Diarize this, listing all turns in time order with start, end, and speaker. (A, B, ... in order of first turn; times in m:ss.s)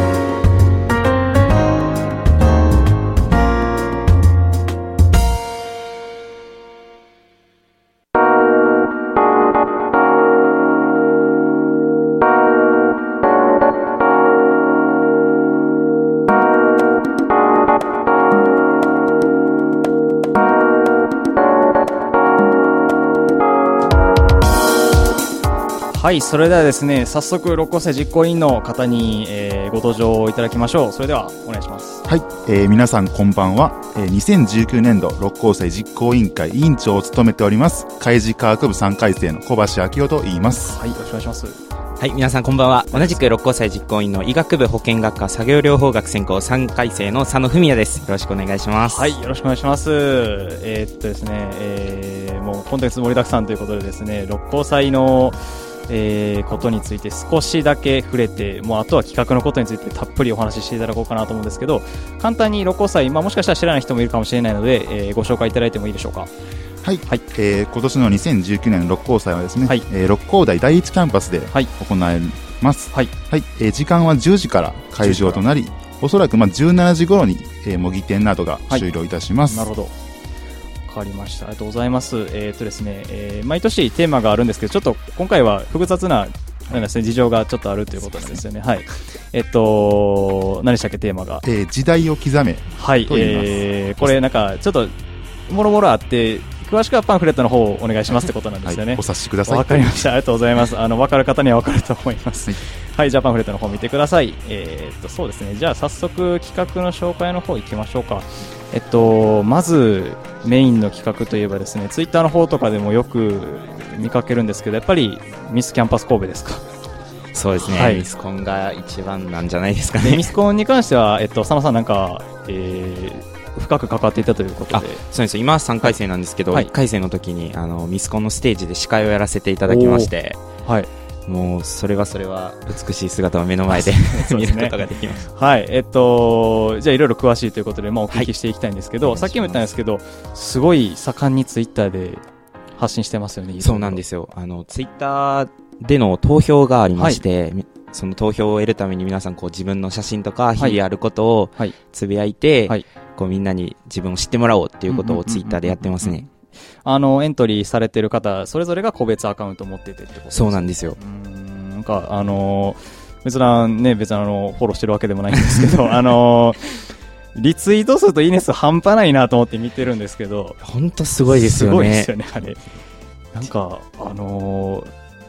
0:25.9-0:32.0 A
0:32.1-0:40.8 B
0:40.7-0:41.6 A
0:42.0-0:49.1 C
0:42.9-0:43.2 A
0:48.8-1:06.3 A
1:06.8-1:19.7 B
1:15.0-1:15.4 A
1:19.5-1:19.9 A
1:20.9-1:31.4 A
1:31.4-1:34.2 B
1:32.8-1:34.9 A
1:35.5-1:56.6 A
1:38.6-1:40.1 B
1:57.3-2:00.3 C
1:57.6-1:58.0 A
2:00.0-2:05.0 A
2:04.7-2:10.4 C
2:09.7-2:10.1 A
2:10.6-2:10.9 A
2:11.3-2:15.3 C
2:13.7-2:22.2 A
2:19.0-2:19.6 C
2:22.8-2:24.0 A
2:23.6-2:36.3 C
2:34.9-2:36.3 A
2:36.8-2:46.8 A
2:40.3-2:41.0 C
2:47.4-2:50.6 A
2:50.6-2:52.1 C
2:51.3-2:52.6 A
2:53.3-2:54.9 A